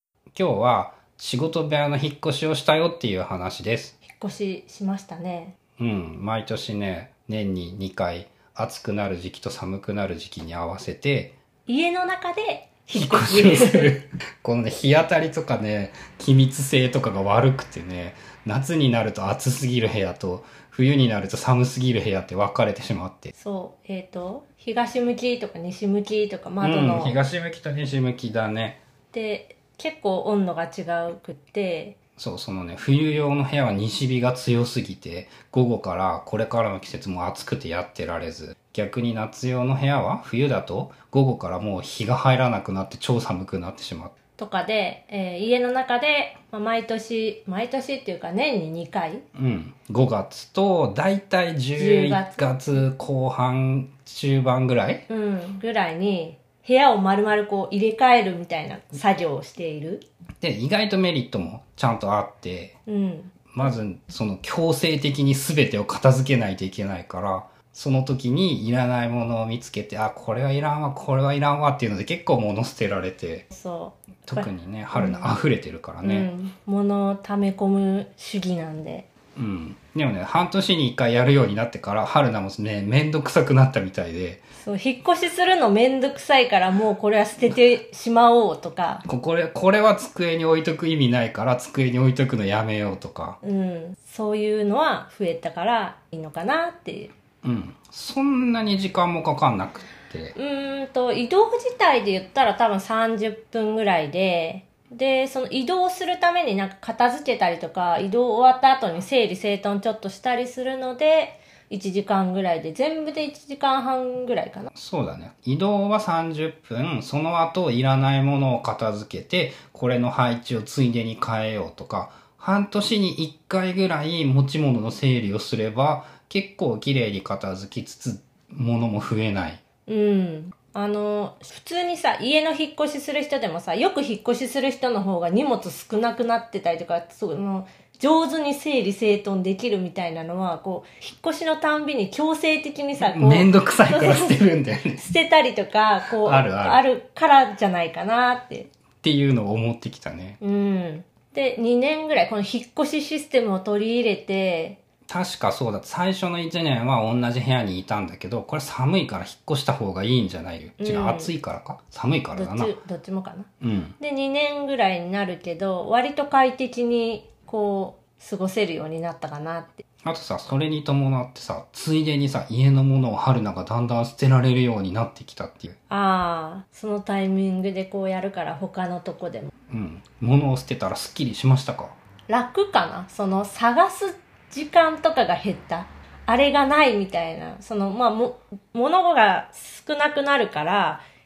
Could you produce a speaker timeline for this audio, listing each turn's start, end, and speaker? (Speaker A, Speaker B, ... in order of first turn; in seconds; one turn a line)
Speaker A: 0.3-4.0
Speaker B: 4.0-5.6
Speaker A: 5.8-11.4
Speaker B: 11.7-14.0
Speaker A: 12.9-23.3
Speaker B: 23.4-27.2
Speaker A: 26.6-28.8
Speaker B: 29.1-32.0
Speaker A: 32.2-44.1
Speaker B: 44.4-49.2
Speaker A: 49.4-55.0
Speaker B: 51.8-52.5
Speaker B: 55.1-60.0
Speaker A: 60.4-62.8
Speaker B: 62.9-63.3
Speaker A: 63.5-73.5
Speaker B: 73.5-75.3
Speaker A: 74.3-76.3
Speaker B: 76.0-79.1
Speaker A: 79.4-84.4
Speaker B: 84.6-89.0
Speaker A: 89.0-93.4
Speaker B: 93.4-97.1
Speaker A: 97.4-100.3
Speaker B: 100.3-114.7
Speaker A: 114.8-129.6
Speaker B: 129.9-144.4
Speaker A: 143.0-145.0
Speaker B: 145.0-148.7
Speaker A: 146.2-146.8
Speaker A: 149.0-150.4
Speaker B: 150.4-154.8
Speaker A: 155.1-162.8
Speaker B: 160.8-161.3
Speaker B: 162.3-163.5
Speaker A: 163.6-163.9
Speaker B: 164.0-169.8
Speaker A: 170.0-175.8
Speaker B: 175.9-179.5
Speaker A: 179.7-182.0
Speaker B: 182.3-191.0